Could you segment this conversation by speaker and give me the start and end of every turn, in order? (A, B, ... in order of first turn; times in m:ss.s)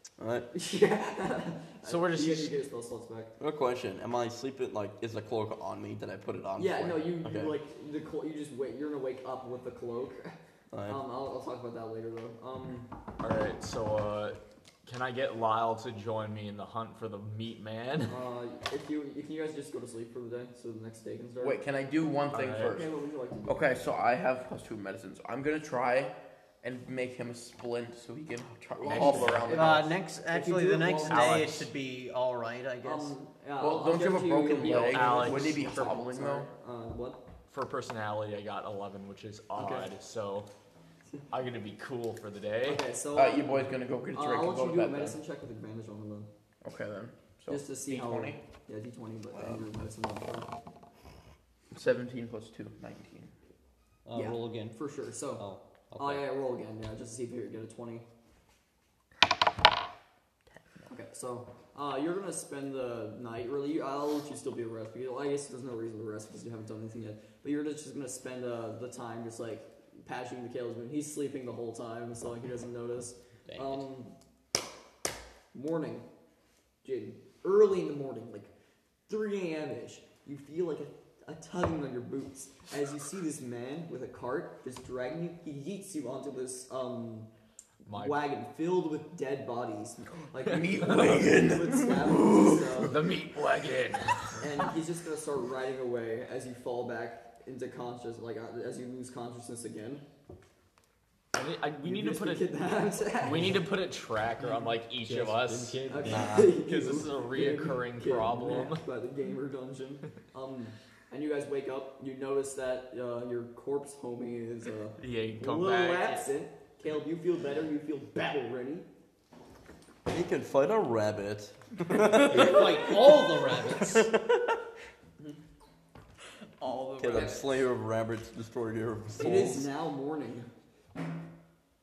0:00.2-0:00.5 A
0:00.5-0:03.3 B
0:01.8-0:02.5 C
0:03.4-0:07.6 A
0:06.6-0:12.9 B
0:10.7-0:11.0 A
0:13.2-0:18.2 C
0:18.1-0:21.6 B
0:21.4-0:22.9 D
0:22.3-0:22.7 C
0:22.6-0:23.6 B
0:23.5-0:30.0 D
0:28.8-0:31.3 B
0:28.8-0:29.8 C
0:29.5-0:33.1 E
0:31.1-0:31.7 C
0:32.8-0:37.2 B
0:33.6-0:36.5 D
0:34.6-0:35.6 C
0:37.5-0:40.5 C
0:39.5-0:39.9 B
0:41.3-0:42.8 C
0:42.6-0:46.3 B
0:43.1-0:45.2 D
0:46.6-0:48.4 D
0:47.5-0:50.5 B
0:51.7-0:53.3 D
0:54.0-0:54.8 E
0:54.1-0:58.0 B
0:55.3-0:56.2 E
1:00.9-1:14.2 B
1:13.5-1:13.8 E
1:15.5-1:16.0 B
1:16.8-1:18.5 B
1:19.1-1:27.3 B
1:27.8-1:28.2 C
1:27.9-1:33.0 B
1:30.4-1:33.0 D
1:32.9-1:34.4 C
1:34.4-1:40.0 B
1:41.3-1:42.5 C
1:41.8-1:43.6 B
1:43.1-1:48.8 C
1:45.0-1:46.6 E
1:45.8-1:58.9 B
1:55.0-1:56.3 C
2:00.0-2:02.8 A
2:02.1-2:04.1 E
2:02.2-2:03.1 F
2:03.8-2:04.4 A
2:06.6-2:07.6 F
2:07.0-2:09.7 A
2:09.1-2:10.5 B